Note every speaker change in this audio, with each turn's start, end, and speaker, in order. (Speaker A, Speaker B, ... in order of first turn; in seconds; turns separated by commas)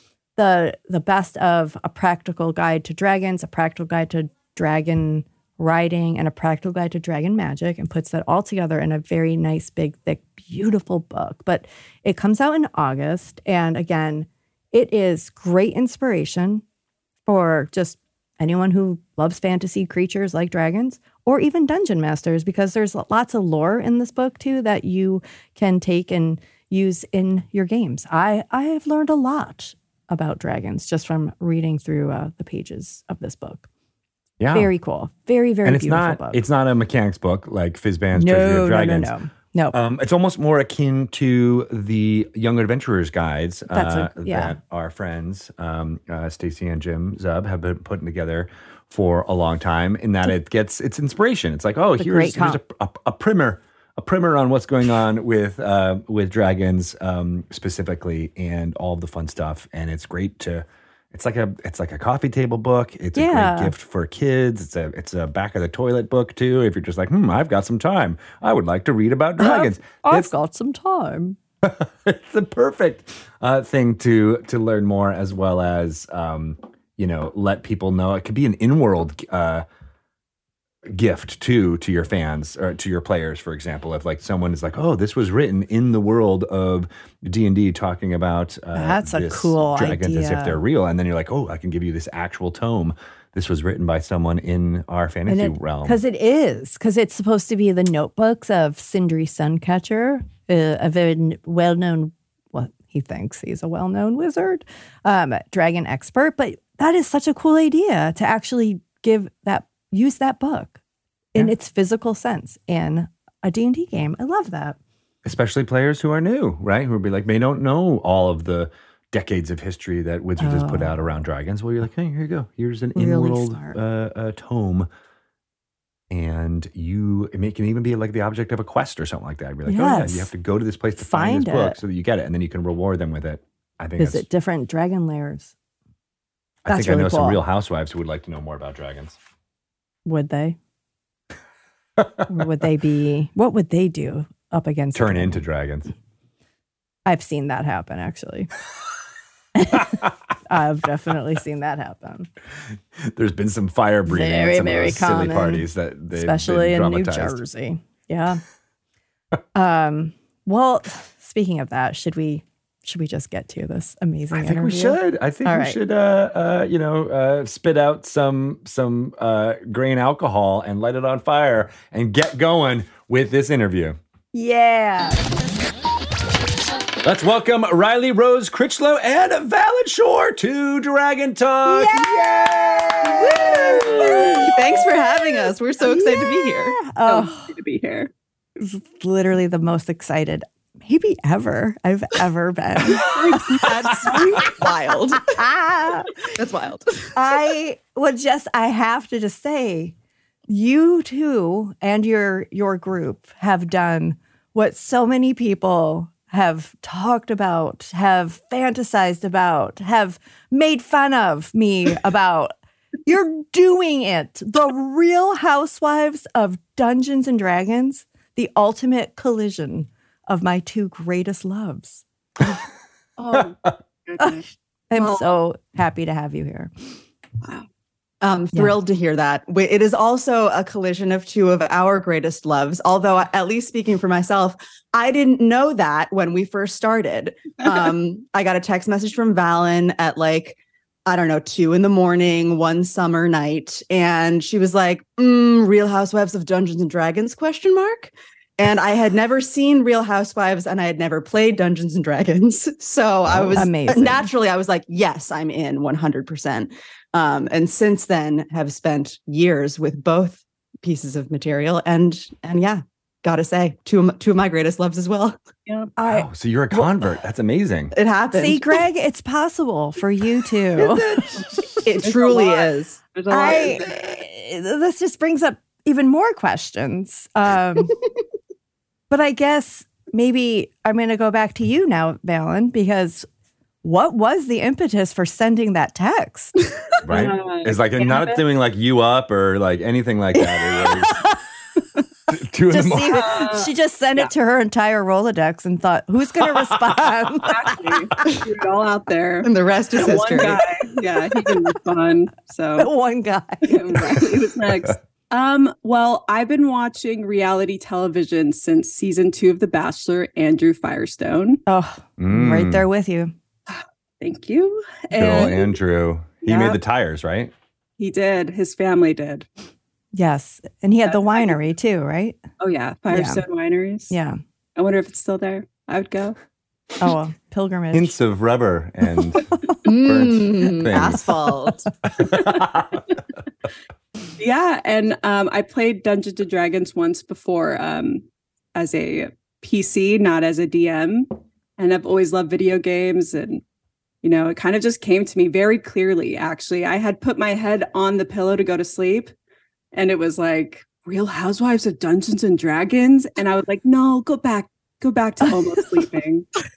Speaker A: 0.4-16.6, Speaker A: 17.2-33.6, Speaker B: 34.4-34.7, Speaker A: 34.5-36.4, Speaker B: 35.6-39.1, Speaker A: 38.1-39.8, Speaker B: 39.7-70.3, Speaker A: 43.7-44.5, Speaker A: 52.0-52.6, Speaker A: 63.1-63.7, Speaker A: 69.4-71.4, Speaker B: 71.6-79.6, Speaker B: 80.8-96.0, Speaker A: 88.7-90.6, Speaker A: 95.3-110.8, Speaker A: 111.3-114.8, Speaker B: 115.2-124.9, Speaker A: 120.4-121.0, Speaker A: 122.9-123.8, Speaker B: 126.1-134.2, Speaker A: 129.7-130.3, Speaker A: 131.0-131.8, Speaker A: 134.0-135.5, Speaker B: 136.7-139.2, Speaker A: 136.7-137.4, Speaker A: 140.1-140.6, Speaker A: 142.3-145.4, Speaker B: 144.9-145.9, Speaker A: 147.1-148.5, Speaker A: 149.6-152.3, Speaker B: 153.0-157.4, Speaker A: 154.1-158.4, Speaker A: 159.5-165.8, Speaker B: 164.3-174.0, Speaker A: 174.3-175.3, Speaker B: 177.0-184.5, Speaker A: 181.7-184.5, Speaker C: 183.7-184.4, Speaker D: 184.3-186.8, Speaker A: 185.8-187.5, Speaker C: 187.1-188.1, Speaker A: 188.6-193.7, Speaker C: 193.0-194.4, Speaker D: 193.0-195.4, Speaker A: 195.2-196.2, Speaker D: 196.3-196.9, Speaker A: 197.1-199.9, Speaker A: 200.5-212.5, Speaker A: 213.1-222.0, Speaker C: 223.2-223.5, Speaker C: 224.1-224.4, Speaker A: 224.2-226.9, Speaker C: 224.9-225.2, Speaker D: 228.2-265.4, Speaker B: 253.3-253.7, Speaker A: 253.5-254.2, Speaker A: 266.0-266.9, Speaker B: 266.1-267.9, Speaker D: 267.9-268.8, Speaker A: 268.3-271.6, Speaker B: 270.8-271.4, Speaker C: 271.4-274.1, Speaker D: 271.8-273.7, Speaker A: 273.3-278.0, Speaker A: 279.1-283.3, Speaker A: 283.8-286.5, Speaker B: 287.0-291.2, Speaker C: 287.1-288.4, Speaker A: 291.0-291.4, Speaker B: 292.3-293.3, Speaker A: 292.7-298.1, Speaker C: 293.1-294.3, Speaker B: 296.4-297.3, Speaker C: 297.5-302.9, Speaker D: 299.4-300.7, Speaker A: 302.8-304.3, Speaker C: 303.7-311.6, Speaker A: 311.7-313.3, Speaker B: 312.2-312.9, Speaker C: 313.7-315.7, Speaker B: 315.1-317.5, Speaker C: 316.4-316.8, Speaker C: 318.0-319.5, Speaker A: 320.1-322.4, Speaker C: 321.1-321.5, Speaker C: 322.6-324.1, Speaker A: 323.1-323.4, Speaker A: 324.1-324.4, Speaker C: 324.8-326.4, Speaker A: 327.0-328.1, Speaker B: 327.9-329.5, Speaker D: 329.8-331.9, Speaker B: 330.0-331.3, Speaker B: 332.0-332.9, Speaker C: 332.2-333.2, Speaker C: 334.4-338.2, Speaker C: 338.7-343.6, Speaker C: 344.2-349.3, Speaker C: 349.9-356.5